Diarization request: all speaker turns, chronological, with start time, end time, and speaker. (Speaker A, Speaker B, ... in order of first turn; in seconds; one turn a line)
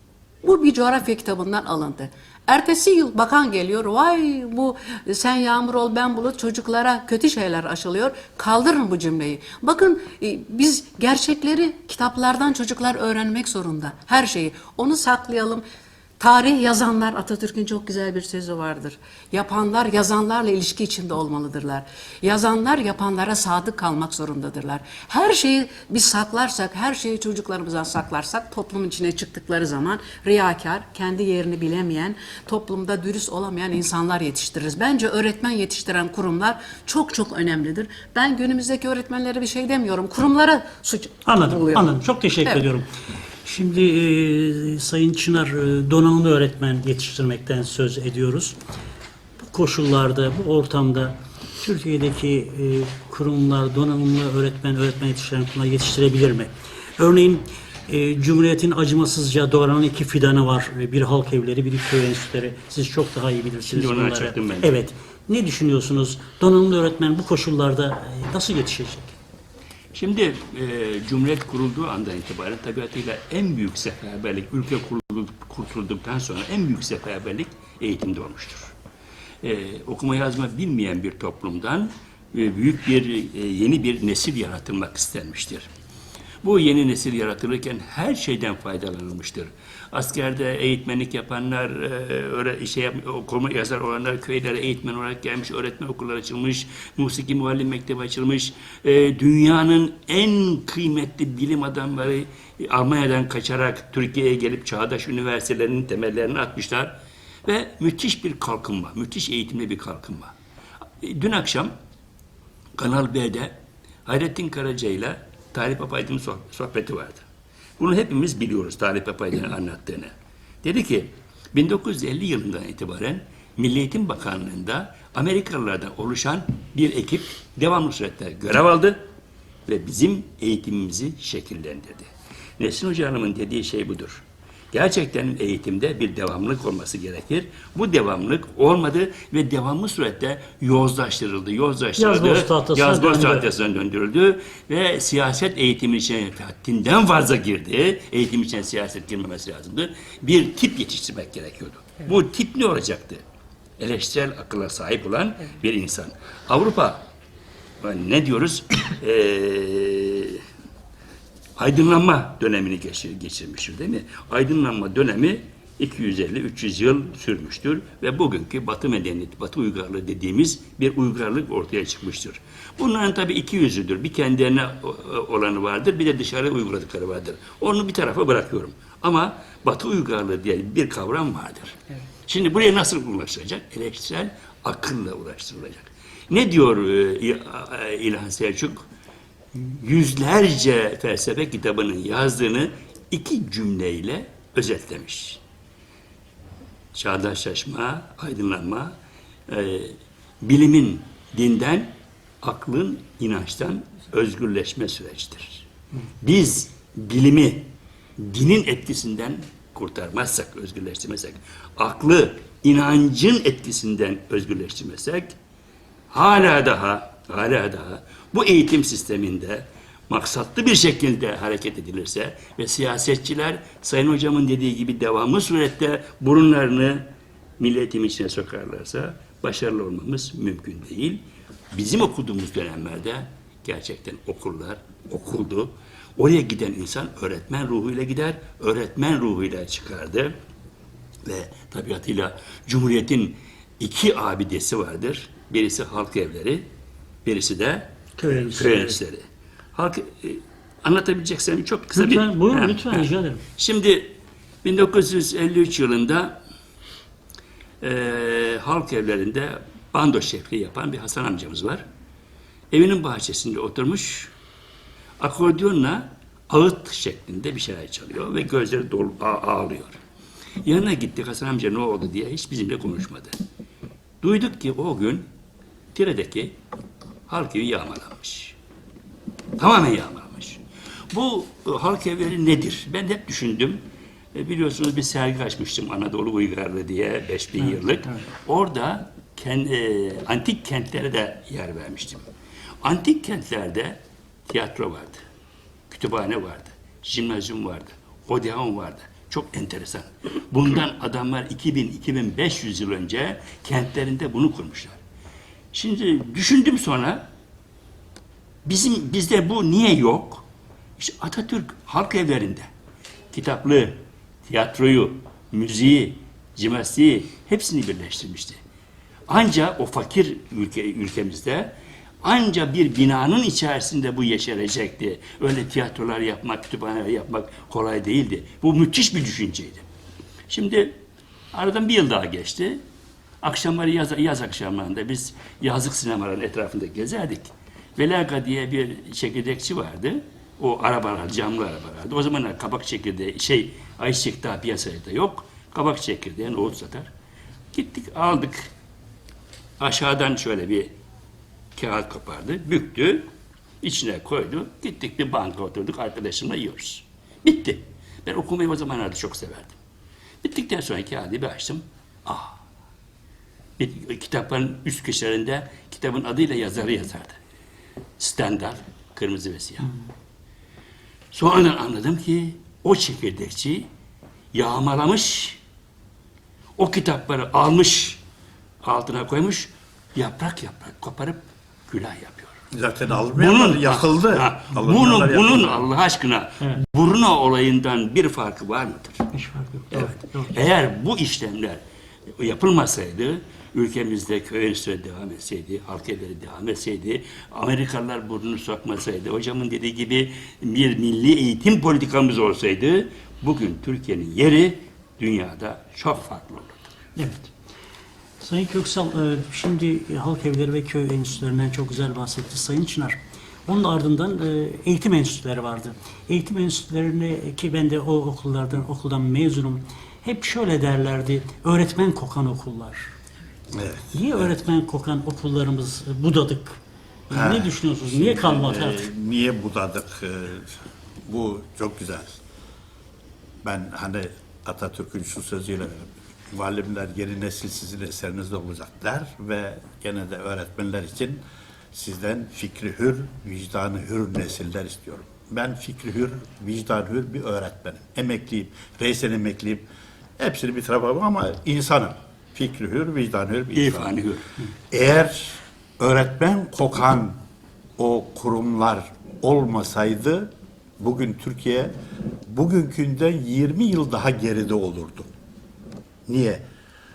Speaker A: 0.4-15.6
Speaker A: 16.2-42.7
Speaker B: 41.2-42.9
Speaker B: 43.4-48.6
Speaker B: 49.5-69.2
Speaker C: 63.7-64.7
Speaker C: 69.9-78.7
Speaker C: 79.4-85.7
Speaker C: 86.4-110.3
Speaker C: 111.0-111.7
Speaker C: 112.8-117.2
Speaker C: 117.8-120.1
Speaker C: 120.6-129.0
Speaker C: 129.7-153.2
Speaker B: 142.0-143.5
Speaker C: 153.8-157.1
Speaker C: 157.8-160.4
Speaker C: 161.6-188.8
Speaker C: 189.6-195.4
Speaker C: 196.9-198.9
Speaker C: 199.5-205.7
Speaker C: 206.2-215.3
Speaker C: 216.1-227.1
Speaker C: 227.6-240.3
Speaker C: 241.2-246.7
Speaker C: 247.2-247.9
Speaker B: 248.2-249.0
Speaker C: 248.5-256.4
Speaker B: 251.9-253.4
Speaker C: 257.8-261.8
Speaker C: 262.7-264.3
Speaker C: 265.2-270.0
Speaker C: 270.6-273.4
Speaker C: 274.2-275.3
Speaker C: 275.9-276.6
Speaker C: 277.3-278.6
Speaker C: 279.6-280.6
Speaker C: 281.1-283.8
Speaker C: 284.3-292.2
Speaker C: 292.8-295.2
Speaker C: 295.9-305.0
Speaker C: 305.7-307.2
Speaker C: 308.6-310.5
Speaker C: 311.0-312.7
Speaker C: 313.3-318.6
Speaker C: 319.3-329.9
Speaker C: 330.5-331.0
Speaker C: 331.5-332.8
Speaker C: 333.4-347.1
Speaker C: 347.7-348.7
Speaker C: 349.8-350.9
Speaker C: 351.8-353.3
Speaker C: 353.8-359.8
Speaker C: 360.4-362.6
Speaker C: 363.8-367.4
Speaker C: 368.2-369.9
Speaker C: 371.3-373.9
Speaker C: 374.5-375.6
Speaker C: 376.8-378.2
Speaker C: 378.8-382.6
Speaker D: 382.7-385.9
Speaker C: 383.4-389.3
Speaker B: 389.3-390.5
Speaker C: 389.9-391.8
Speaker C: 392.4-406.9
Speaker B: 407.2-407.5
Speaker B: 408.4-423.1
Speaker D: 423.7-424.5
Speaker B: 424.1-426.8
Speaker D: 427.3-432.4
Speaker B: 427.3-429.1
Speaker D: 433.6-449.9
Speaker D: 450.4-454.1
Speaker C: 453.7-454.5
Speaker D: 454.9-457.4
Speaker D: 458.0-461.9
Speaker D: 462.5-465.3
Speaker D: 466.3-466.6